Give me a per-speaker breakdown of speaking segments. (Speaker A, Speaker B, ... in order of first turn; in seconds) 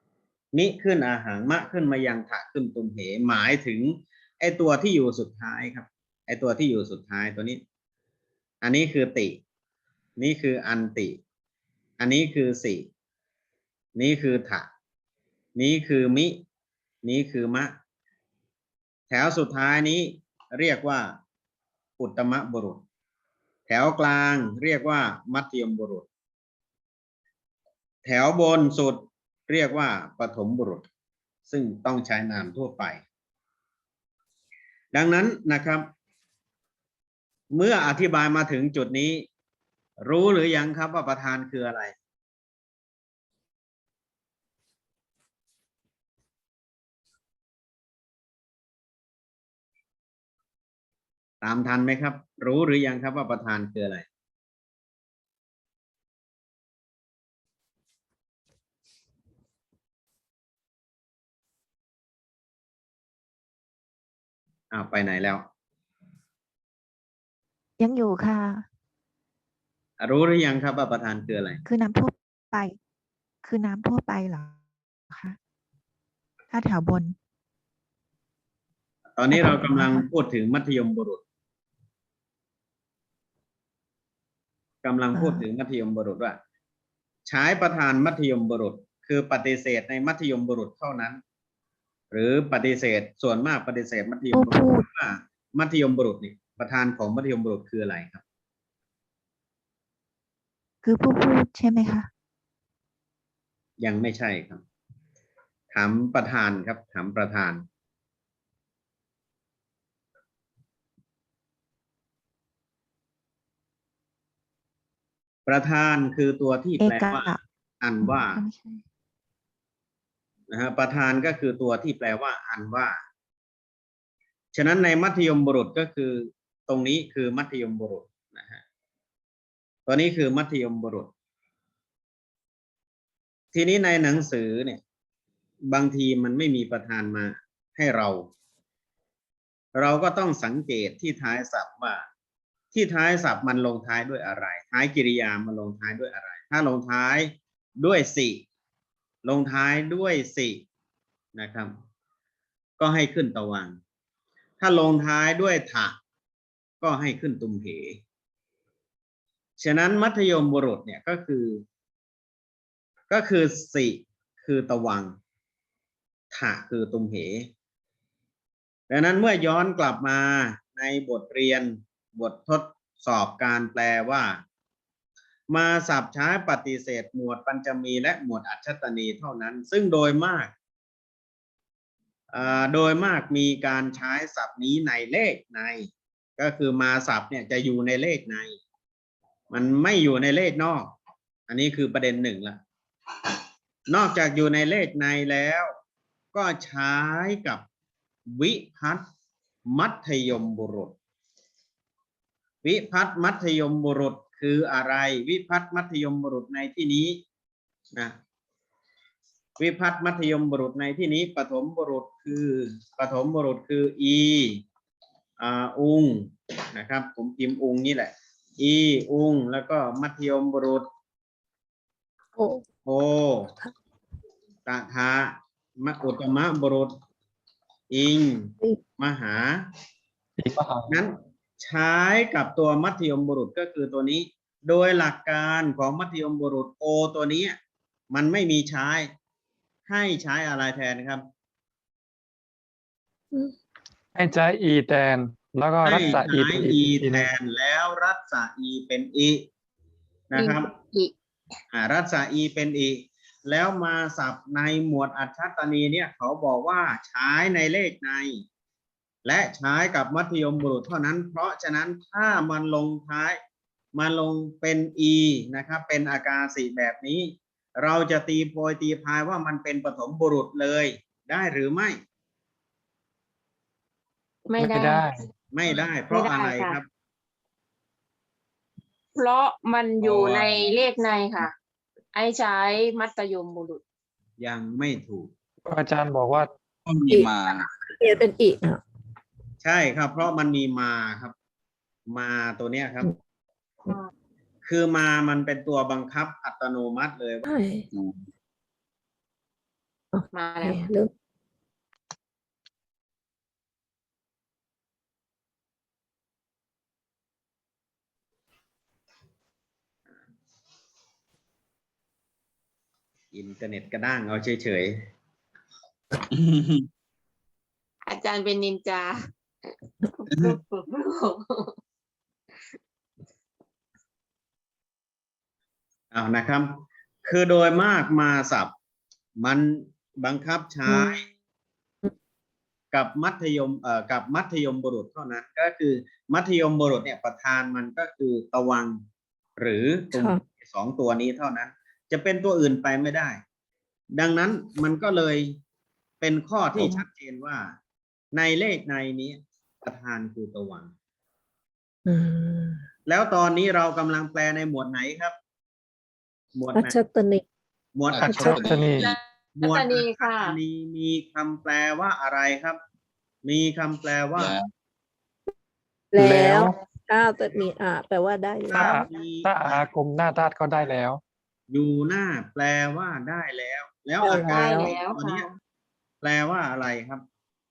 Speaker A: 0.5-7.6, 8.6-9.4, 10.2-11.2, 12.0-12.9, 13.9-14.7, 15.6-16.4, 17.0-17.7, 19.1-21.1, 22.0-22.8, 23.7-26.1, 28.1-30.8, 31.5-33.0, 34.9-35.9, 37.5-39.2, 40.0-41.9, 51.4-54.0, 64.7-65.4, 70.0-71.6, 79.2-81.2, 84.8-86.4, 87.3-91.2, 92.1-98.2, 103.8-104.6, 105.7-107.6, 115.5-118.4, 120.5-123.0, 124.5-128.6, 129.9-131.1, 133.5-134.8, 135.7-138.2, 139.8-142.0, 142.7-148.4, 149.2-150.6, 151.4-151.7, 152.8-153.8, 154.6-155.9, 156.8-158.0, 159.6-161.6, 163.1-165.2, 166.3-167.5, 168.9-174.4, 175.5-180.5, 182.3-188.6, 189.5-190.9, 191.5-192.6, 193.9-195.7, 196.3-197.6, 198.3-199.0, 199.7-200.9, 202.6-207.2, 209.6-214.6, 215.4-220.8, 222.8-223.5, 224.7-226.9, 227.9-229.7, 230.9-237.6, 238.1-239.1, 239.9-241.2, 245.8-249.4, 250.3-250.7, 251.7-258.4, 259.2-263.4, 263.9-272.0, 275.5-276.9, 284.4-285.3, 289.6-291.3, 292.1-293.1, 294.6-297.4, 313.3-315.0, 326.1-328.7, 329.4-331.2, 332.9-339.0, 339.6-343.4, 344.1-345.6, 346.2-347.8, 348.3-350.9, 353.1-355.3, 356.6-357.0, 357.9-358.9, 359.6-362.8, 363.4-364.6, 368.7-369.9, 371.7-375.5, 376.2-377.2
Speaker B: 67.8-68.6, 71.6-72.8, 73.4-74.6, 75.1-75.4, 76.5-77.2, 79.3-80.1, 85.1-85.4, 94.3-94.9, 100.8-102.1, 116.8-117.4, 118.0-118.8
Speaker C: 222.3-222.7, 287.1-288.8, 297.4-297.9, 300.1-301.1, 330.9-331.1, 340.1-340.4, 346.8-347.0, 352.1-352.9, 356.7-357.4, 358.2-358.7, 366.1-369.1, 374.2-374.9
Speaker D: 230.4-230.9, 244.2-247.3, 274.6-275.2, 285.6-286.5, 358.2-359.1, 366.2-366.8, 368.7-371.2
Speaker E: 250.3-251.1, 274.5-275.1, 276.1-276.8, 279.2-281.5, 282.1-283.8, 300.3-300.9, 318.1-319.2, 320.1-321.7, 359.0-360.6, 374.2-375.5
Speaker F: 280.0-280.7, 286.9-287.7, 297.9-298.2, 316.3-316.9, 358.1-359.1, 364.4-364.7